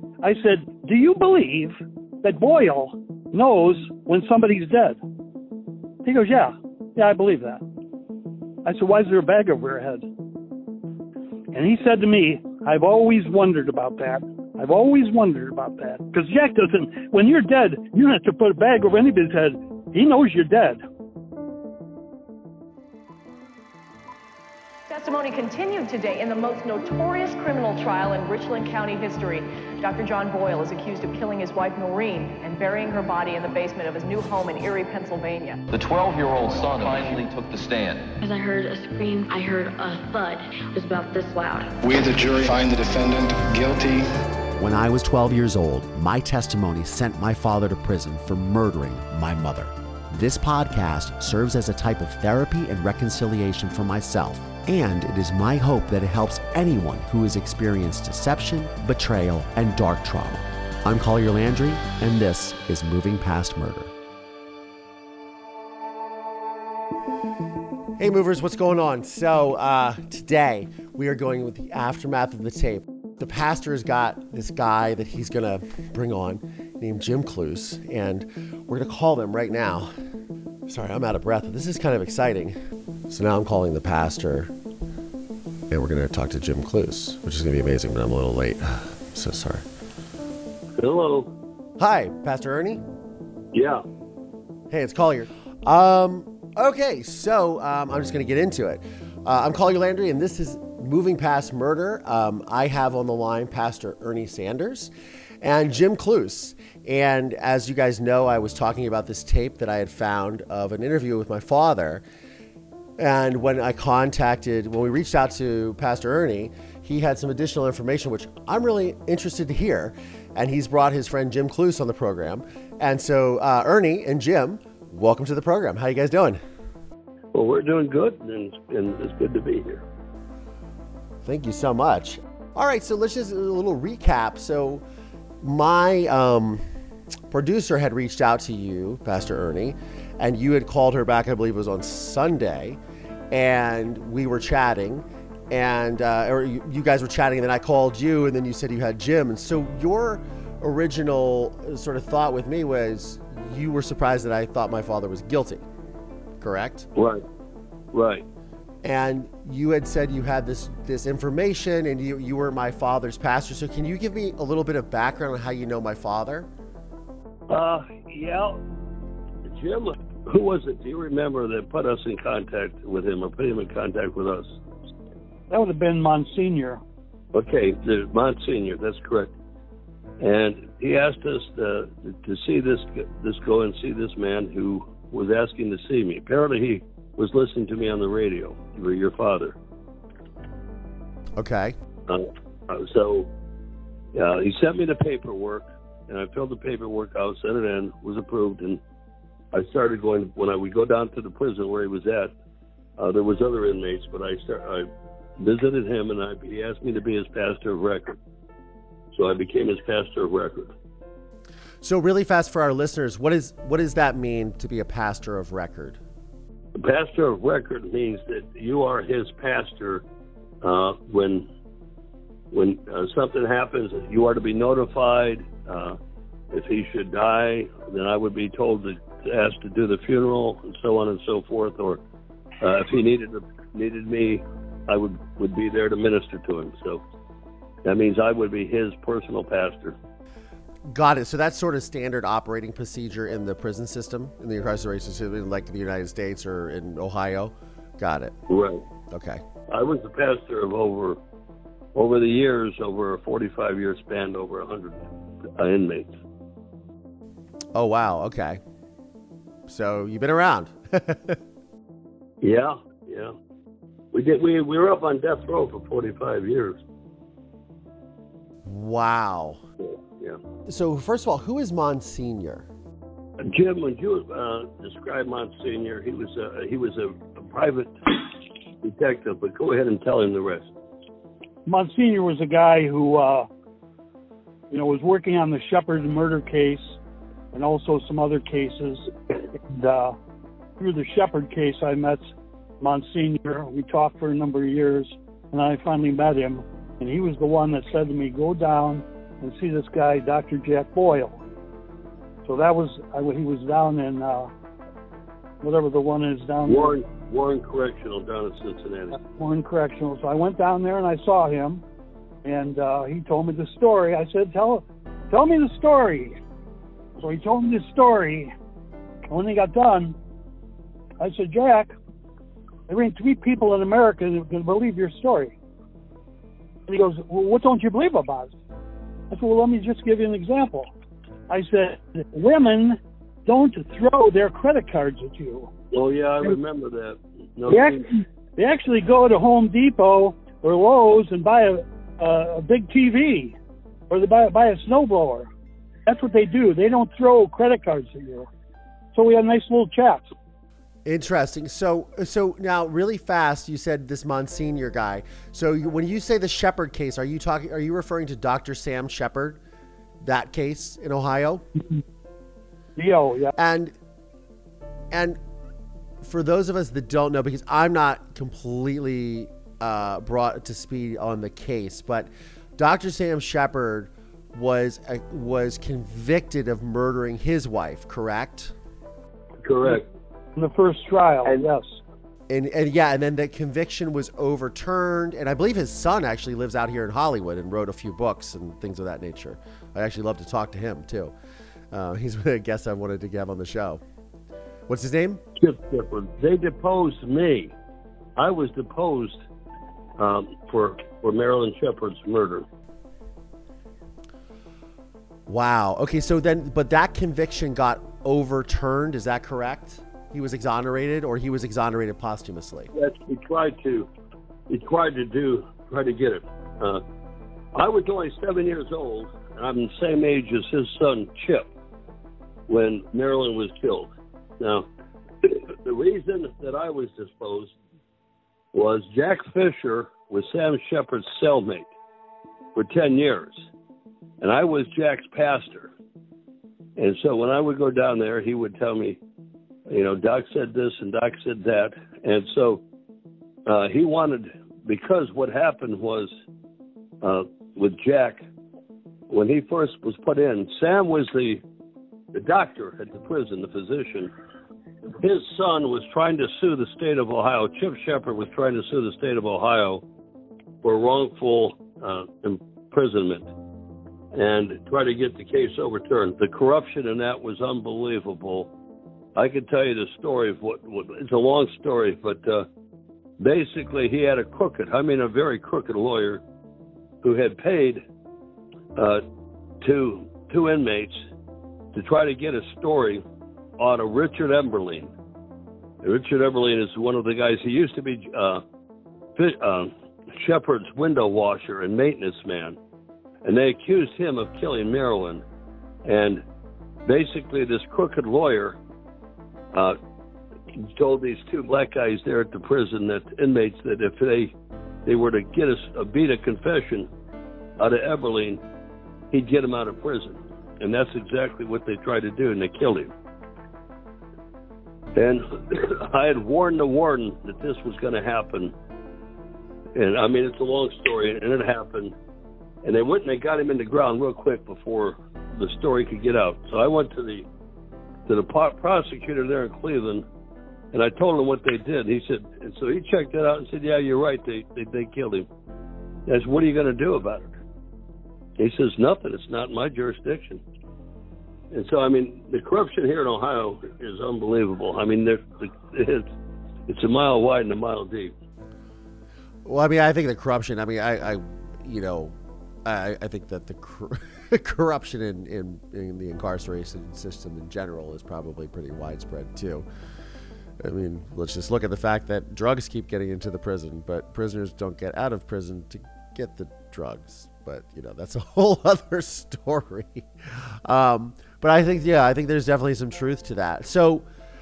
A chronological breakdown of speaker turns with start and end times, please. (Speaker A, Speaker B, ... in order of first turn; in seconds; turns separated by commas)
Speaker A: 0.2-5.0, Speaker A: 6.0-7.6, Speaker A: 8.7-10.1, Speaker A: 11.5-20.8, Speaker B: 24.9-35.6, Speaker C: 35.7-38.2, Speaker D: 38.2-41.8, Speaker E: 41.8-44.1, Speaker F: 44.6-63.9, Speaker F: 68.0-79.9, Speaker F: 80.7-82.5, Speaker F: 83.1-84.5, Speaker F: 85.7-89.7, Speaker G: 90.8-91.3, Speaker F: 91.8-92.8, Speaker G: 93.5-93.8, Speaker F: 94.7-112.0, Speaker F: 113.0-126.4, Speaker G: 127.3-129.8, Speaker F: 131.2-134.8, Speaker F: 135.4-136.6, Speaker F: 137.3-142.8, Speaker F: 143.3-155.7, Speaker F: 156.4-156.9, Speaker G: 157.0-157.2, Speaker G: 157.9-158.3, Speaker F: 158.8-166.5, Speaker G: 167.5-168.6, Speaker G: 169.4-174.5, Speaker A: 175.5-176.8, Speaker G: 177.3-179.3, Speaker G: 180.2-189.6, Speaker F: 191.4-191.8, Speaker G: 192.1-193.3, Speaker G: 194.1-198.8, Speaker G: 199.5-202.3, Speaker G: 203.0-208.2, Speaker G: 209.2-210.7, Speaker F: 211.8-216.0, Speaker G: 216.8-220.0, Speaker G: 220.6-221.5, Speaker G: 222.5-226.0, Speaker G: 226.5-232.0, Speaker G: 232.6-237.0, Speaker G: 237.8-240.0, Speaker F: 240.9-248.3, Speaker G: 248.5-248.8, Speaker F: 249.1-249.4, Speaker G: 249.7-251.2, Speaker G: 251.9-255.0, Speaker G: 255.6-256.1, Speaker F: 257.8-258.6, Speaker F: 259.7-261.4, Speaker G: 262.4-263.4, Speaker G: 264.1-266.8, Speaker F: 268.6-269.6, Speaker G: 269.8-270.4, Speaker F: 270.7-272.7, Speaker G: 273.4-280.7, Speaker A: 281.7-283.5, Speaker A: 284.7-287.0, Speaker A: 287.5-290.2, Speaker A: 290.8-292.3, Speaker A: 292.8-301.4, Speaker A: 302.5-304.5, Speaker A: 305.6-307.0, Speaker G: 306.7-309.2, Speaker A: 309.1-311.8, Speaker A: 312.4-316.4, Speaker A: 317.2-318.5, Speaker A: 319.3-320.2, Speaker A: 321.2-321.9, Speaker A: 322.9-325.6, Speaker A: 326.9-328.5, Speaker A: 329.3-330.9, Speaker A: 331.5-335.7, Speaker G: 335.9-338.1, Speaker A: 337.7-343.6, Speaker A: 344.1-345.5, Speaker A: 346.1-348.5, Speaker A: 349.1-350.3, Speaker F: 351.1-359.6, Speaker F: 360.2-361.6, Speaker A: 363.0-363.5, Speaker F: 363.6-363.9, Speaker F: 365.1-365.4, Speaker F: 366.2-378.7, Speaker G: 379.6-380.1, Speaker A: 380.6-382.0, Speaker F: 382.5-391.3, Speaker F: 391.9-394.0, Speaker F: 394.9-395.4, Speaker G: 395.6-397.7, Speaker G: 398.4-399.4, Speaker G: 400.2-402.6, Speaker F: 405.5-412.9, Speaker G: 412.9-414.1, Speaker G: 414.7-417.0, Speaker G: 417.7-421.7, Speaker G: 422.7-424.9, Speaker G: 425.4-427.7, Speaker G: 428.7-431.9, Speaker G: 432.8-433.6, Speaker G: 434.4-435.9, Speaker G: 437.0-439.2, Speaker G: 439.9-442.8, Speaker G: 443.7-446.3, Speaker G: 447.2-448.4, Speaker G: 449.3-451.6, Speaker G: 452.3-454.3, Speaker G: 455.2-460.0, Speaker G: 460.8-463.5, Speaker G: 464.3-468.7, Speaker G: 469.4-472.7, Speaker G: 473.4-476.4, Speaker G: 477.2-478.0, Speaker G: 479.0-479.2, Speaker G: 479.8-481.2, Speaker G: 481.9-483.2, Speaker G: 483.8-485.1, Speaker G: 486.0-488.6, Speaker G: 489.4-492.8, Speaker G: 493.4-495.4, Speaker G: 496.1-496.4, Speaker G: 497.1-498.8, Speaker G: 499.7-500.0, Speaker G: 500.8-504.6, Speaker G: 505.1-507.1, Speaker G: 507.8-508.6, Speaker G: 509.3-513.1, Speaker G: 515.2-518.7, Speaker G: 520.0-522.1, Speaker G: 522.8-527.5, Speaker G: 528.3-530.2, Speaker G: 530.9-535.5, Speaker G: 536.3-537.6, Speaker G: 538.6-540.6, Speaker G: 541.7-546.3, Speaker G: 546.9-548.4, Speaker F: 549.6-559.9, Speaker F: 560.8-574.3